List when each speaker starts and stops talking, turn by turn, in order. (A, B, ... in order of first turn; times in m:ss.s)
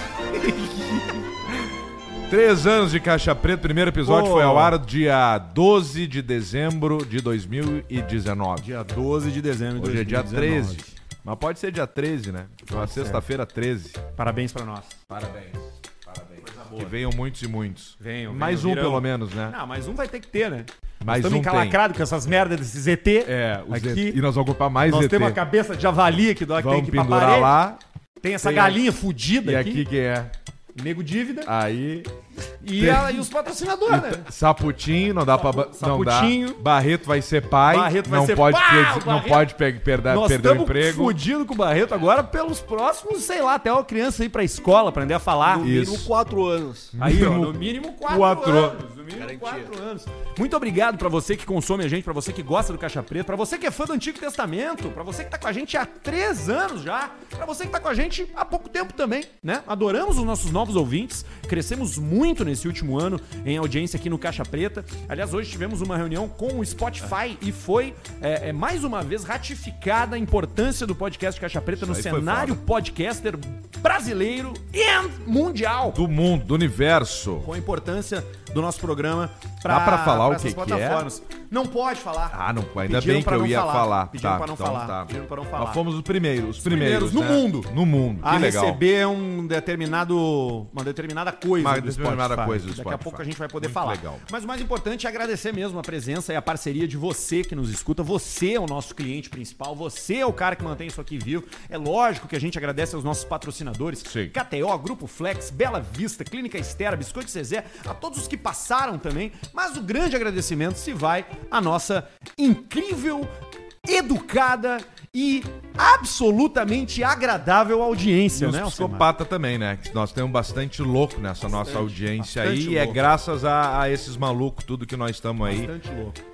0:00.3-0:01.7 A
0:02.3-0:08.7 A
0:04.0-0:04.8 B
0:08.6-0:10.9 B
0:09.8-0:14.0 A
0:12.7-0:13.2 B
0:14.2-0:15.0 B
0:15.1-0:19.6 A
0:16.5-0:16.9 B
0:18.0-0:24.2 B
0:21.0-0:21.8 A
0:23.2-0:25.4 A
0:24.9-0:27.6 B
0:26.5-0:27.8 A
0:28.2-0:29.9 B
0:28.4-0:28.9 A
0:29.4-0:30.3 A
0:30.8-0:31.5 B
0:31.4-0:32.1 A
0:32.6-0:34.3 B
0:32.8-0:33.3 A
0:33.9-0:41.2 A
0:35.3-0:36.6 B
0:37.7-0:39.5 B
0:40.0-0:45.7 B
0:45.4-0:46.9 C
0:45.6-0:46.1 A
0:46.9-0:48.8 A
0:47.0-1:16.0 B
0:49.2-0:49.7 C
1:11.8-1:12.6 A
1:15.9-1:17.5 A
1:17.4-1:25.8 B
1:19.6-1:21.1 A
1:22.3-1:28.8 A
1:26.6-1:53.3 B
1:31.6-1:34.2 A
1:44.1-1:44.3 A
1:53.8-1:59.1 B
1:58.3-2:05.7 A
2:01.5-2:03.0 B
2:05.4-2:06.2 B